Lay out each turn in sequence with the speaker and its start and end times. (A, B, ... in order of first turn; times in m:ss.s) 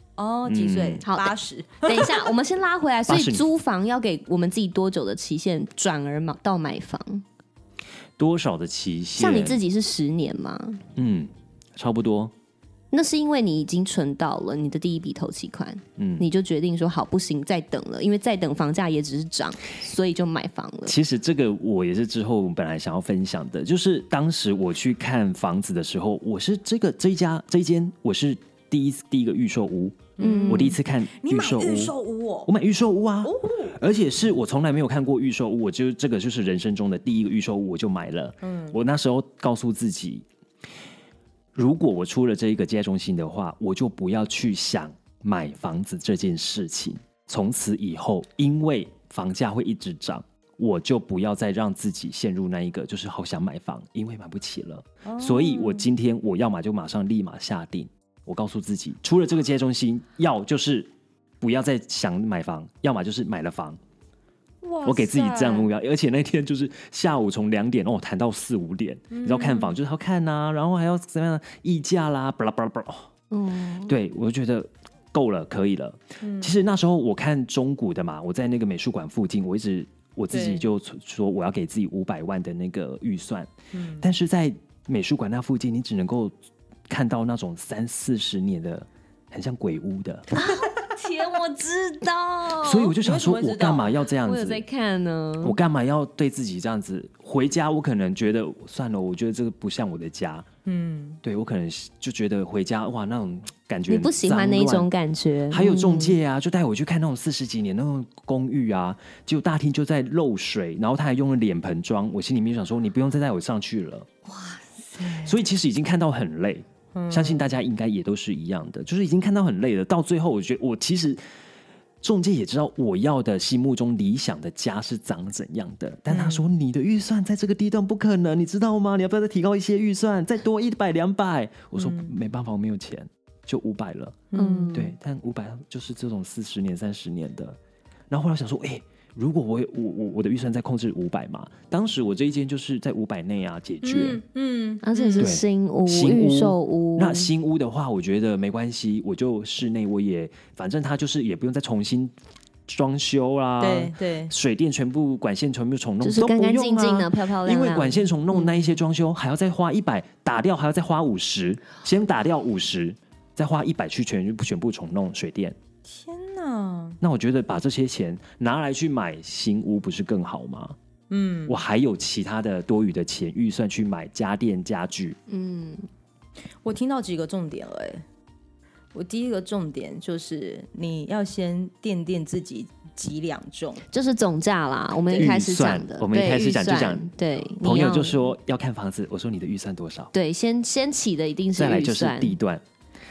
0:00.2-0:02.3 A
0:00.5-0:01.0 B
0:01.0-0:07.2 C
0:03.1-0:03.5 B
0:08.2-0:09.6 B
0:09.2-0:10.8 C
0:11.0-0:12.3 B
0:12.9-0:21.0 C
0:16.0-0:16.3 B
0:20.9-0:31.9 B
0:30.2-0:32.5 A
0:30.2-0:30.8 C
0:32.5-0:40.3 B
0:33.2-0:33.7 A
0:38.4-0:38.8 A
0:41.5-1:00.9 B
0:55.0-0:55.9 A
1:01.4-1:03.8 B
1:04.6-1:05.7 A
1:04.8-1:13.1 B
1:09.1-1:09.7 A
1:13.3-1:14.0 C
1:13.8-1:26.4 B
1:16.2-1:16.5 A
1:20.3-1:20.7 A
1:23.7-1:24.1 A
1:26.9-1:30.3 B
1:30.3-1:33.0 C
1:32.6-1:34.6 B
1:33.0-1:34.0 A
1:34.2-1:35.6 C
1:35.4-1:40.5 B
1:40.6-1:41.2 A
1:41.2-1:44.9 B
1:43.9-1:46.2 C
1:45.5-1:54.1 B
1:54.3-1:55.2 C
1:55.1-2:01.2 B
1:56.9-1:57.6 A
2:02.0-2:17.6 B
2:06.1-2:06.4 A
2:11.8-2:12.1 A
2:14.3-2:14.8 A
2:14.3-2:15.0 C
2:18.1-2:24.2 B
2:23.8-2:25.4 A
2:24.8-2:27.3 C
2:25.2-2:32.2 B
2:32.7-2:45.6 B
2:33.6-2:34.3 A
2:36.0-2:38.8 C
2:45.8-2:47.0 A
2:47.0-2:50.8 B
2:51.1-2:51.6 A
2:51.5-2:55.2 B
2:55.3-2:55.8 C
2:56.6-2:58.0 A
2:58.9-3:03.8 A
3:03.9-3:08.3 C
3:05.0-3:05.4 A
3:05.2-3:10.1 B
3:10.1-3:12.4 C
3:11.6-3:12.6 B